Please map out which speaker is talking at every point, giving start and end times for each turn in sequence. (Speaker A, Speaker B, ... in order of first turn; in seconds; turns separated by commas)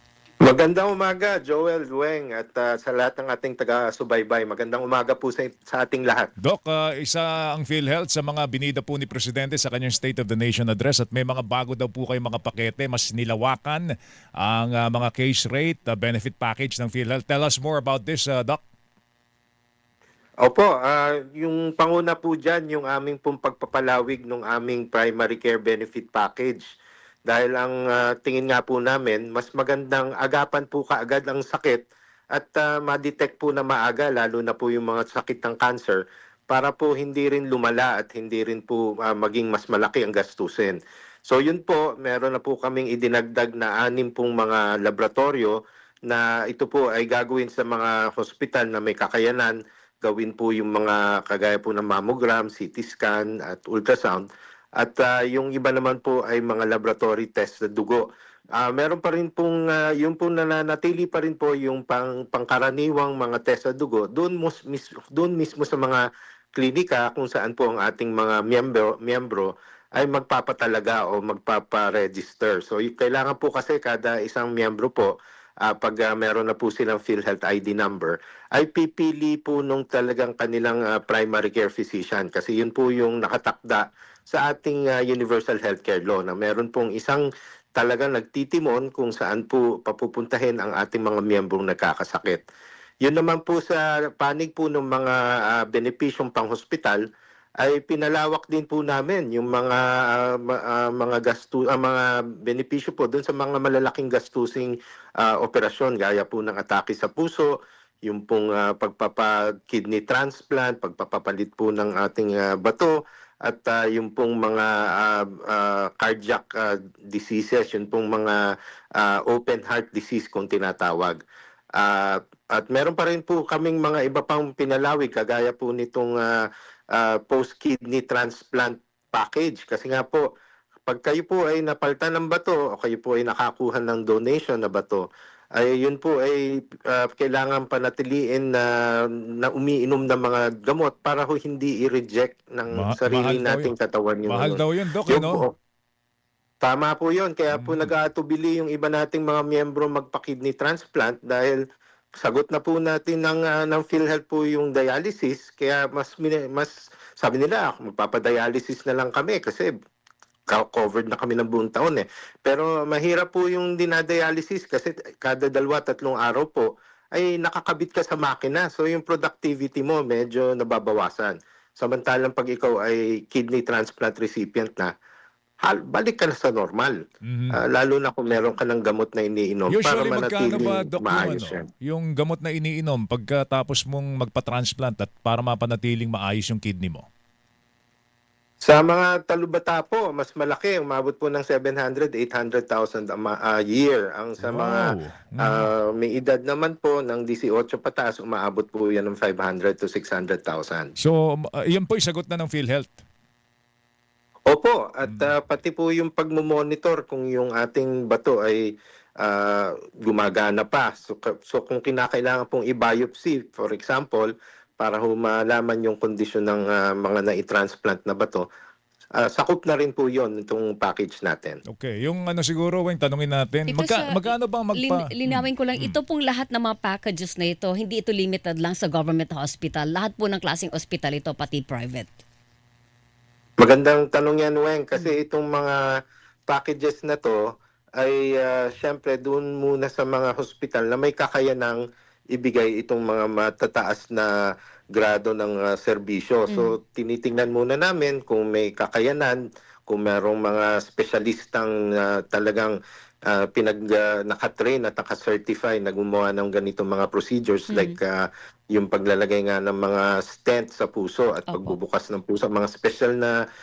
Speaker A: 0.4-6.3, Speaker B: 6.4-13.8, Speaker B: 14.4-18.6, Speaker A: 20.4-26.6, Speaker A: 27.3-45.5, Speaker A: 46.1-54.2, Speaker A: 54.8-58.0, Speaker A: 58.6-66.0, Speaker A: 66.5-75.1, Speaker A: 75.6-87.2, Speaker A: 87.8-92.4, Speaker A: 93.0-97.0, Speaker A: 97.6-107.5, Speaker A: 108.1-118.4, Speaker A: 119.0-121.2, Speaker A: 121.8-130.2, Speaker A: 130.9-135.0, Speaker A: 135.6-145.5, Speaker B: 142.7-143.7, Speaker B: 144.3-145.4, Speaker A: 146.6-151.6, Speaker B: 147.5-147.9, Speaker A: 152.2-159.7, Speaker A: 160.5-174.9, Speaker A: 175.6-177.0, Speaker B: 177.2-177.6, Speaker A: 177.6-181.6, Speaker B: 179.7-187.1, Speaker A: 188.6-194.8, Speaker B: 194.4-195.7, Speaker A: 195.4-200.9, Speaker B: 201.0-203.0, Speaker A: 204.5-208.7, Speaker B: 205.0-205.3, Speaker A: 209.2-218.4, Speaker A: 219.2-221.6, Speaker B: 221.7-225.9, Speaker C: 223.7-232.1, Speaker A: 233.6-235.8, Speaker A: 236.5-237.4, Speaker A: 238.0-241.8, Speaker A: 242.3-244.3, Speaker A: 244.9-252.7, Speaker C: 246.5-246.7, Speaker A: 253.3-263.3, Speaker C: 257.7-258.0, Speaker C: 261.5-261.8